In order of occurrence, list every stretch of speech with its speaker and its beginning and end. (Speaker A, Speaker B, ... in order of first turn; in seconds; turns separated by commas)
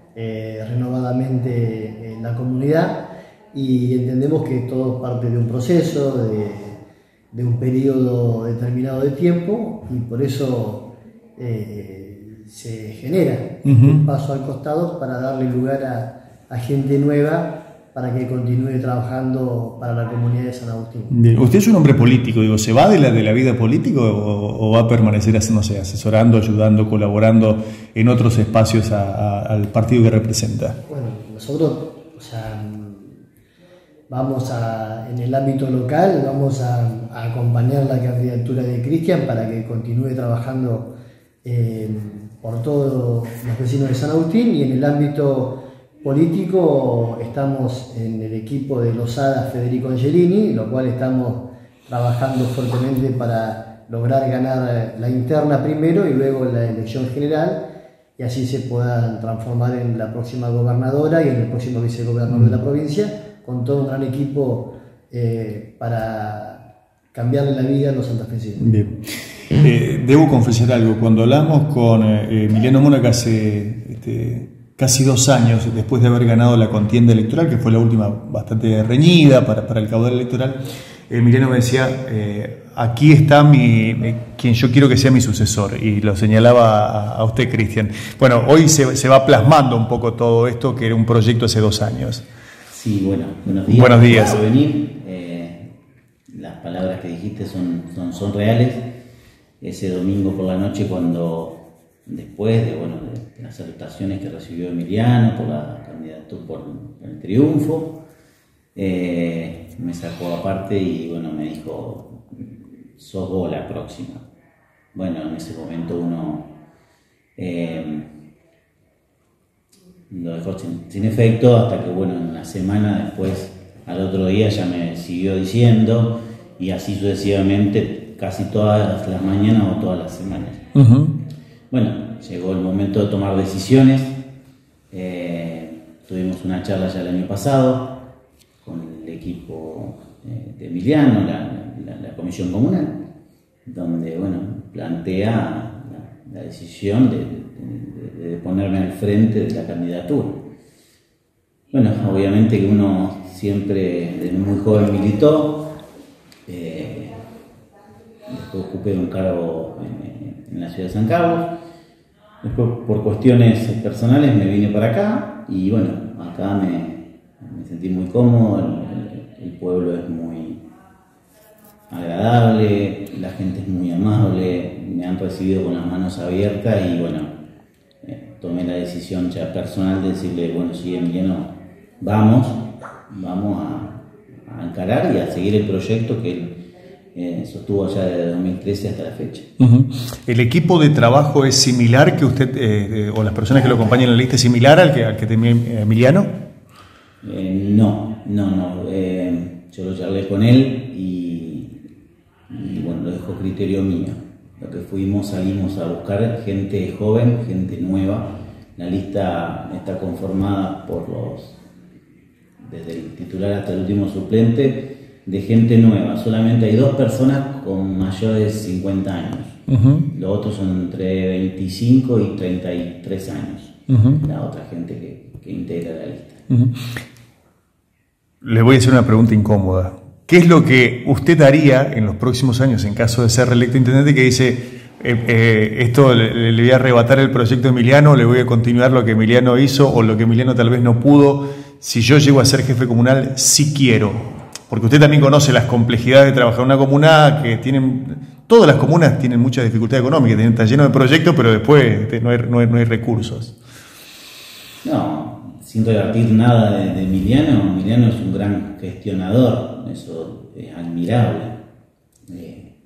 Speaker A: 0.1-6.8, Speaker A: 7.3-21.1, Speaker B: 13.6-14.0, Speaker B: 21.1-30.8, Speaker A: 30.9-33.2, Speaker A: 34.1-40.9, Speaker A: 41.4-57.6, Speaker A: 58.2-68.7, Speaker B: 62.3-62.5, Speaker B: 68.6-92.2, Speaker C: 92.7-95.7, Speaker B: 93.7-94.4, Speaker C: 96.3-98.8, Speaker C: 99.6-108.0, Speaker C: 108.7-114.2, Speaker C: 114.9-116.5, Speaker C: 117.4-118.1, Speaker C: 120.1-130.6, Speaker B: 130.7-131.2, Speaker C: 131.7-134.2, Speaker C: 134.9-138.0, Speaker C: 138.6-143.0, Speaker C: 143.7-150.4, Speaker C: 151.7-155.7, Speaker C: 156.5-157.1, Speaker C: 158.3-161.5, Speaker C: 162.4-170.6, Speaker C: 171.9-177.3, Speaker C: 178.0-186.5, Speaker C: 187.1-189.5, Speaker B: 189.6-196.3, Speaker C: 197.2-201.8, Speaker C: 202.5-211.6, Speaker C: 212.6-226.4, Speaker B: 219.7-220.1, Speaker B: 223.9-224.2, Speaker B: 226.5-227.0, Speaker B: 228.4-253.5, Speaker C: 254.8-261.6, Speaker C: 262.3-262.7